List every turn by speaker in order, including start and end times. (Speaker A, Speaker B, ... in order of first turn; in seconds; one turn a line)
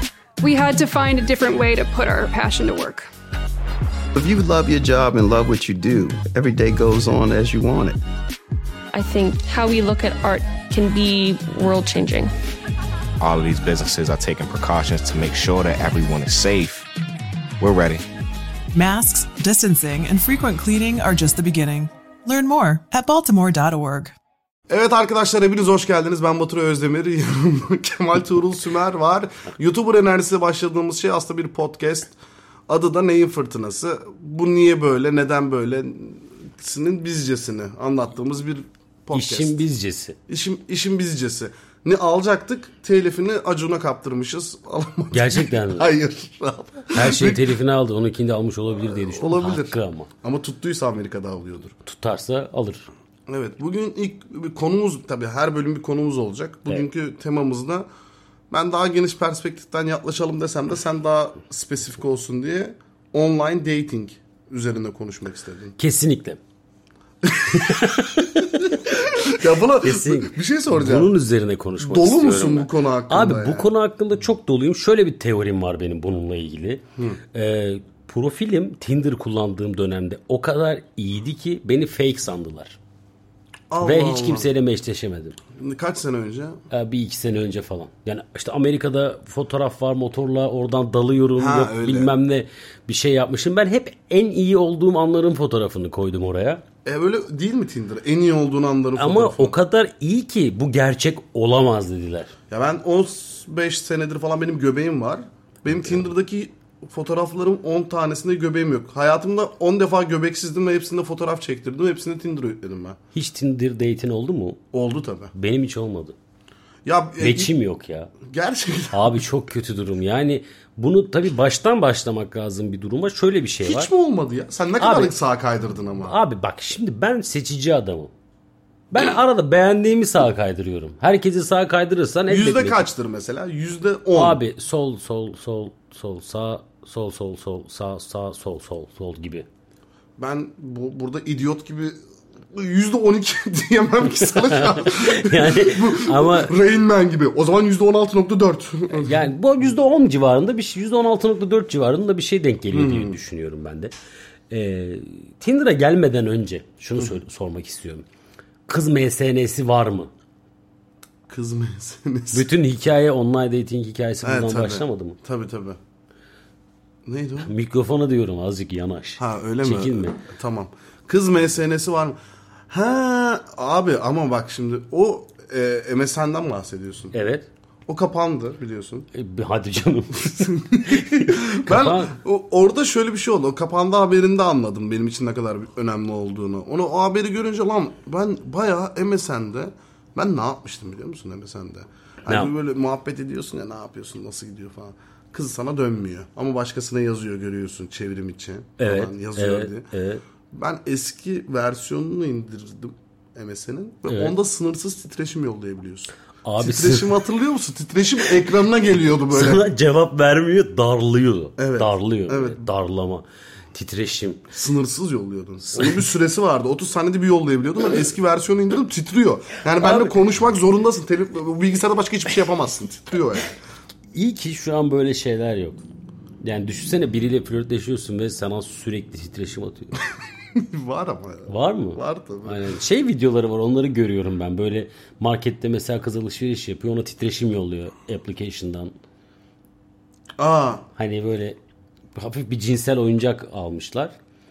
Speaker A: 0.4-3.1
Speaker B: 4.1-8.0
Speaker C: 8.9-12.3
Speaker D: 13.2-16.9
Speaker D: 17.6-18.0
Speaker E: 18.7-24.1
Speaker F: 24.7-32.1
Speaker F: 32.7-39.6
Speaker G: 39.1-40.2
Speaker F: 40.3-47.5
Speaker G: 45.1-45.9
Speaker G: 46.9-50.1
Speaker F: 49.1-51.7
Speaker G: 51.8-52.9
Speaker F: 53.3-57.9
Speaker F: 58.5-65.8
Speaker G: 65.8-66.4
Speaker F: 67.2-68.0
Speaker G: 67.5-69.0
Speaker F: 68.7-71.1
Speaker G: 69.8-82.8
Speaker F: 71.8-73.7
Speaker F: 83.7-84.5
Speaker G: 83.8-85.3
Speaker F: 85.5-86.6
Speaker G: 86.7-96.6
Speaker F: 91.4-92.1
Speaker F: 96.8-99.5
Speaker G: 99.0-102.3
Speaker F: 102.5-113.0
Speaker G: 113.1-114.6
Speaker F: 114.7-115.3
Speaker G: 115.3-116.1
Speaker F: 116.8-117.5
Speaker G: 117.2-118.1
Speaker F: 118.2-119.2
Speaker G: 118.9-123.9
Speaker F: 123.6-126.1
Speaker G: 124.8-125.2
Speaker G: 126.0-128.1
Speaker G: 128.9-132.9
Speaker F: 132.3-134.4
Speaker G: 134.1-139.4
Speaker F: 140.2-142.0
Speaker F: 142.5-149.3
Speaker G: 144.2-146.5
Speaker G: 148.9-153.9
Speaker F: 152.7-153.2
Speaker G: 154.5-158.0
Speaker G: 158.7-160.1
Speaker F: 161.3-162.4
Speaker G: 162.3-165.2
Speaker F: 164.2-165.8
Speaker F: 167.1-167.5
Speaker G: 167.4-170.2
Speaker F: 169.2-172.2
Speaker F: 172.7-177.1
Speaker G: 177.1-177.5
Speaker F: 177.9-179.1
Speaker G: 179.1-182.1
Speaker F: 180.2-199.9
Speaker G: 192.3-192.5
Speaker G: 198.8-200.2
Speaker F: 200.5-209.6
Speaker G: 204.1-204.3
Speaker G: 206.4-207.2
Speaker G: 209.3-214.5
Speaker F: 211.6-212.6
Speaker F: 214.5-223.6
Speaker G: 215.7-216.0
Speaker G: 219.8-220.4
Speaker G: 224.1-225.8
Speaker G: 226.4-230.0
Speaker F: 230.6-232.6
Speaker G: 231.5-238.9
Speaker F: 240.4-240.8
Speaker G: 240.9-241.6
Speaker G: 242.1-244.1